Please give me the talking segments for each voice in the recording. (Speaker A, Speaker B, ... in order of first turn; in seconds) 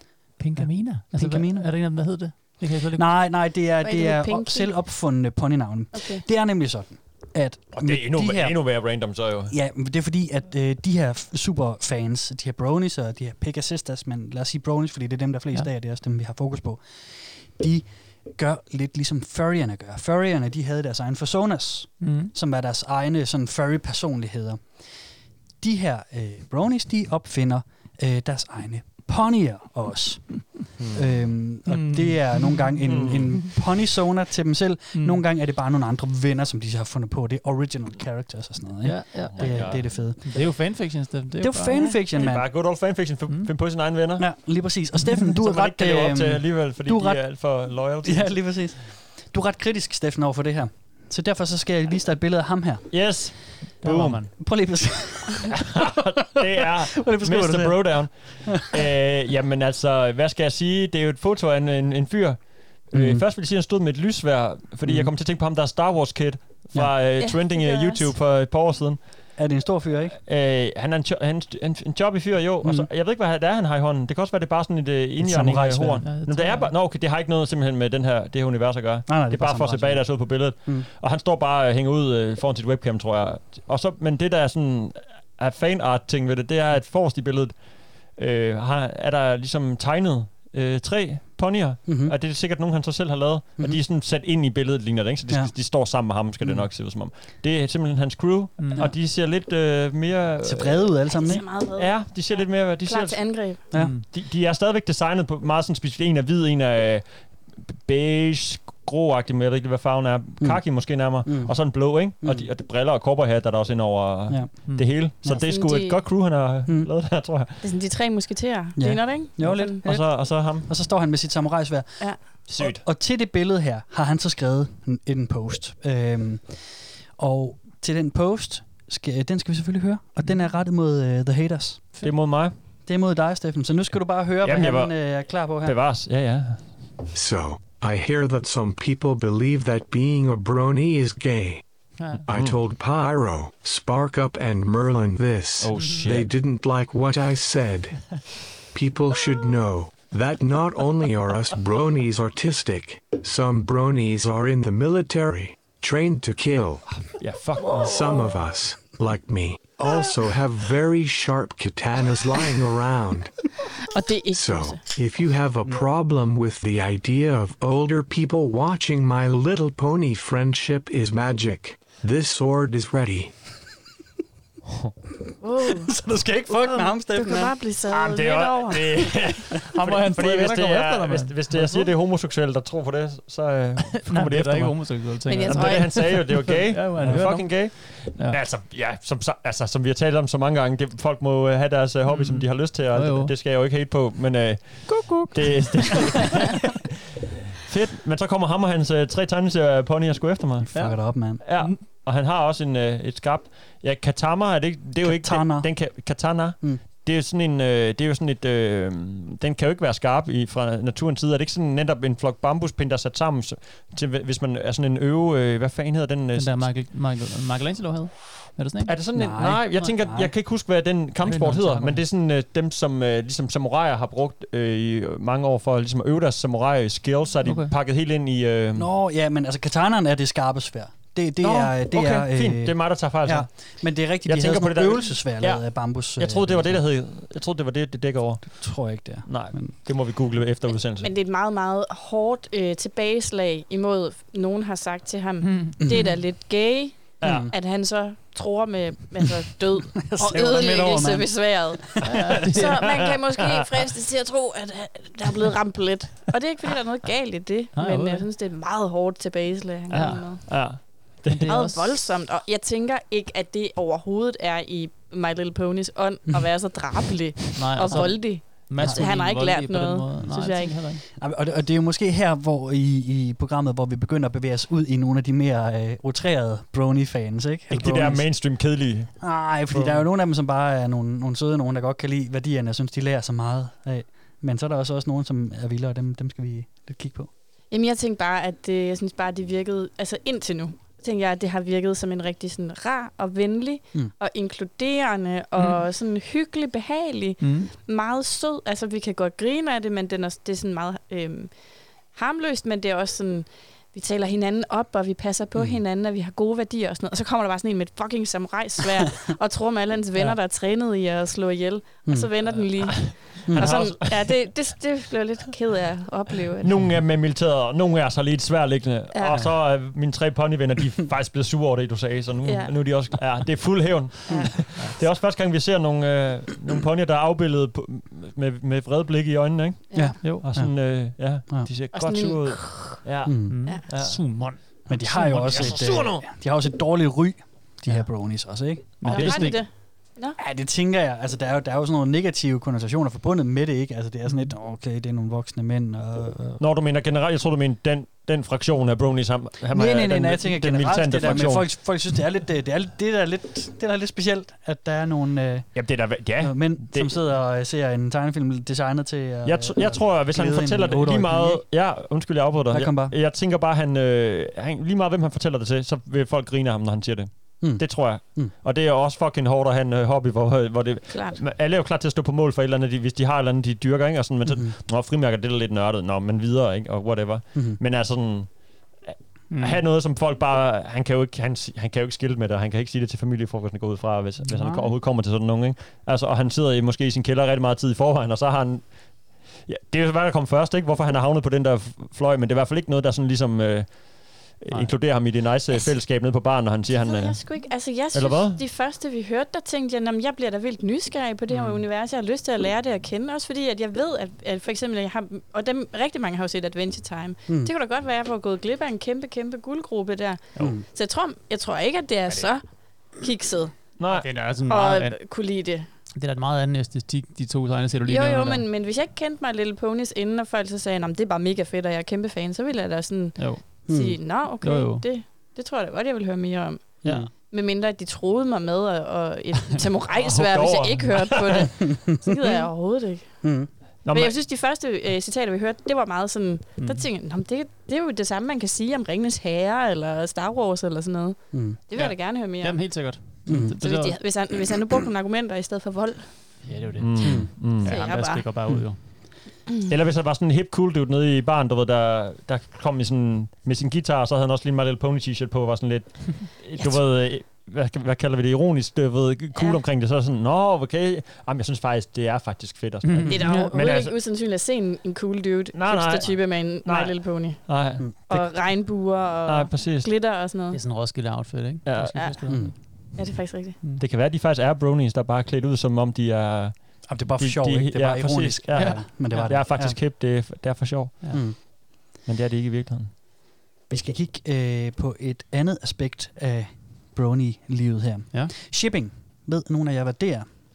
Speaker A: 0.4-3.1, 22.0-22.3, 31.7-32.8, 34.9-35.2, 38.8-42.0, 53.8-54.3, 76.0-76.7, 98.6-98.9, 103.8-104.0, 142.0-142.2, 145.8-146.1, 179.7-181.9, 184.0-188.4, 192.1-193.3, 194.9-196.1, 200.7-201.8, 216.3-219.0, 221.2-222.0, 227.4-227.7, 245.4-246.1, 252.0-252.8, 257.7-258.2, 259.9-260.7, 261.3-262.0, 267.5-271.0, 297.4-297.7, 333.5-336.1, 339.0-339.6, 379.5-379.8, 384.4-384.9, 401.5-401.8, 414.1-415.2, 416.1-418.6, 423.4-423.6, 424.6-425.1, 436.8-437.0, 441.9-444.2, 446.6-449.0, 463.0-463.7, 470.7-472.7, 478.7-479.6
Speaker B: 0.6-1.7, 2.9-24.8, 25.6-40.5, 41.4-42.5, 44.2-53.2, 54.3-58.5, 62.9-63.2, 64.8-65.1, 69.3-70.2, 72.6-72.9, 75.2-76.1, 79.1-80.9, 91.9-92.1, 100.4-101.4, 103.7-104.0, 110.4-112.5, 114.3-115.4, 118.8-131.9, 132.8-135.8, 175.6-177.6, 187.0-187.3, 200.6-201.4, 205.0-205.9, 219.1-220.3, 228.8-236.8, 238.6-239.8, 245.8-246.1, 247.2-247.5, 250.0-251.8, 268.8-269.0, 271.1-278.5, 279.2-287.3, 305.5-305.8, 313.4-313.7, 329.9-331.7, 333.2-333.6, 334.9-339.4, 340.4-346.6, 349.7-355.8, 356.4-361.6, 362.7-363.1, 367.6-368.5, 374.5-374.7, 410.6-410.8, 423.9-424.2, 427.0-427.3, 433.4-433.7, 441.5-441.8, 443.4-443.7, 447.2-447.5, 472.5-472.7, 477.1-480.0, 481.3-481.6, 483.9-490.5
Speaker C: 3.8-4.7, 5.9-6.2, 67.2-68.1, 101.1-103.6, 115.5-116.0, 117.6-119.8, 163.9-164.8, 175.4-175.9, 176.5-179.3, 185.2-186.2, 241.0-260.4, 261.5-270.8, 287.7-301.5, 302.1-316.7, 319.1-319.4, 322.4-322.7, 324.3-324.5, 329.9-330.2, 331.9-333.0, 339.1-340.4, 371.1-371.4, 396.9-412.6, 413.2-413.8, 414.7-415.9, 418.1-433.4, 434.1-443.0, 443.8-446.5, 447.8-448.5, 459.5-459.8, 463.3-470.8, 473.1-473.8
Speaker D: 7.7-9.5, 30.8-31.1, 32.8-33.4, 39.3-39.9, 42.2-44.3, 45.3-48.6, 52.9-54.2, 55.5-69.1, 70.2-87.5, 88.2-101.0, 101.7-117.6, 119.6-120.7, 122.5-122.8, 132.0-132.5, 134.4-136.7, 142.3-142.6, 145.6-146.3, 157.0-158.0, 177.9-196.7, 197.6-200.7, 201.4-216.7, 218.8-228.9, 231.4-241.1, 247.2-247.5, 252.8-253.4, 260.5-261.5, 277.7-280.0, 312.8-314.5, 316.6-334.2, 335.4-336.2, 346.6-351.7, 355.7-357.1, 359.4-378.5, 379.0-397.6, 398.1-398.6, 414.0-414.3, 430.1-431.7, 434.0-434.4, 447.0-447.9, 449.9-464.1, 465.7-468.8, 469.4-470.1, 471.8-472.3, 474.0-483.1
Speaker E: 137.1-141.6, 142.3-148.2, 148.7-156.8, 157.8-163.4, 164.3-173.3